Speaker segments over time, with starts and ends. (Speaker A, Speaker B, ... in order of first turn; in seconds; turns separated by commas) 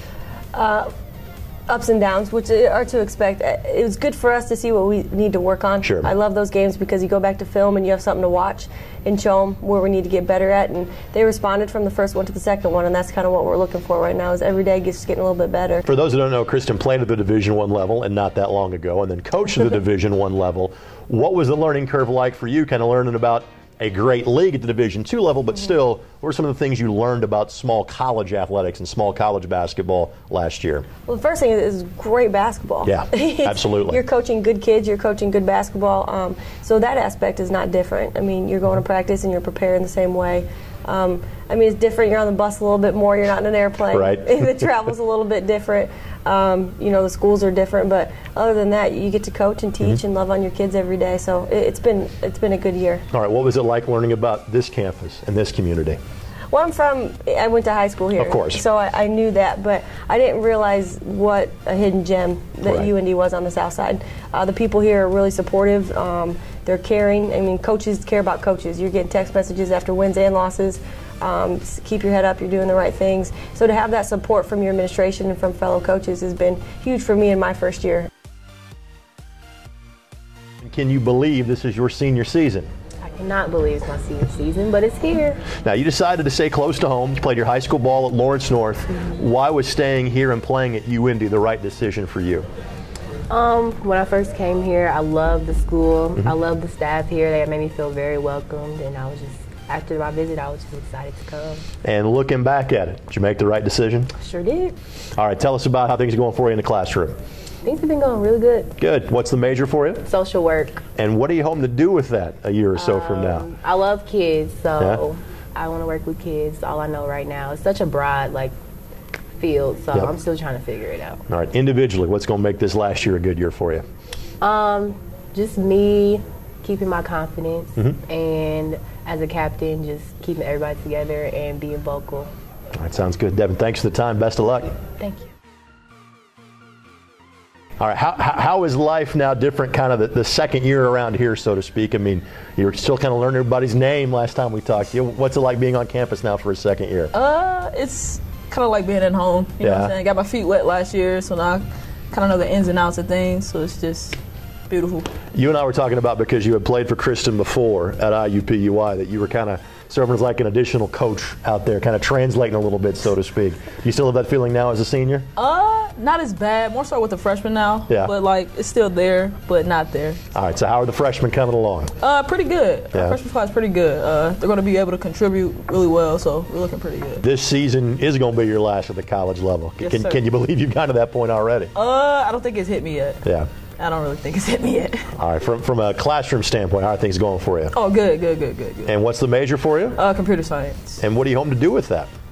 Speaker A: 0.5-0.9, Speaker A: 1.7-15.8, Speaker B: 5.8-6.1, Speaker B: 15.9-30.9, Speaker A: 31.1-53.0, Speaker B: 32.9-34.0, Speaker B: 43.9-44.5, Speaker B: 53.1-56.0, Speaker A: 56.5-78.1, Speaker B: 58.2-58.6, Speaker B: 80.6-82.7, Speaker C: 83.0-85.5, Speaker B: 85.6-92.5, Speaker C: 93.3-101.6, Speaker B: 101.8-104.1, Speaker C: 104.2-104.8, Speaker B: 105.2-107.2, Speaker C: 107.6-108.8, Speaker B: 108.8-110.1, Speaker C: 110.1-110.8, Speaker B: 111.0-113.5, Speaker C: 112.7-118.5, Speaker B: 114.8-115.0, Speaker C: 119.4-121.2, Speaker B: 121.3-123.8, Speaker C: 124.4-132.3, Speaker B: 132.8-134.8, Speaker C: 135.0-135.3, Speaker B: 137.8-147.1, Speaker D: 147.1-154.2, Speaker B: 149.6-149.9, Speaker D: 154.7-155.1, Speaker B: 155.3-165.3, Speaker D: 165.4-170.2, Speaker B: 167.9-168.1, Speaker B: 170.3-171.9, Speaker D: 172.0-177.2, Speaker B: 177.2-181.7, Speaker D: 179.8-180.2, Speaker D: 181.8-183.2, Speaker B: 183.2-183.5, Speaker D: 183.8-185.1, Speaker B: 185.2-187.8, Speaker D: 187.7-188.9, Speaker B: 188.9-190.0, Speaker D: 189.9-191.0, Speaker B: 191.0-192.1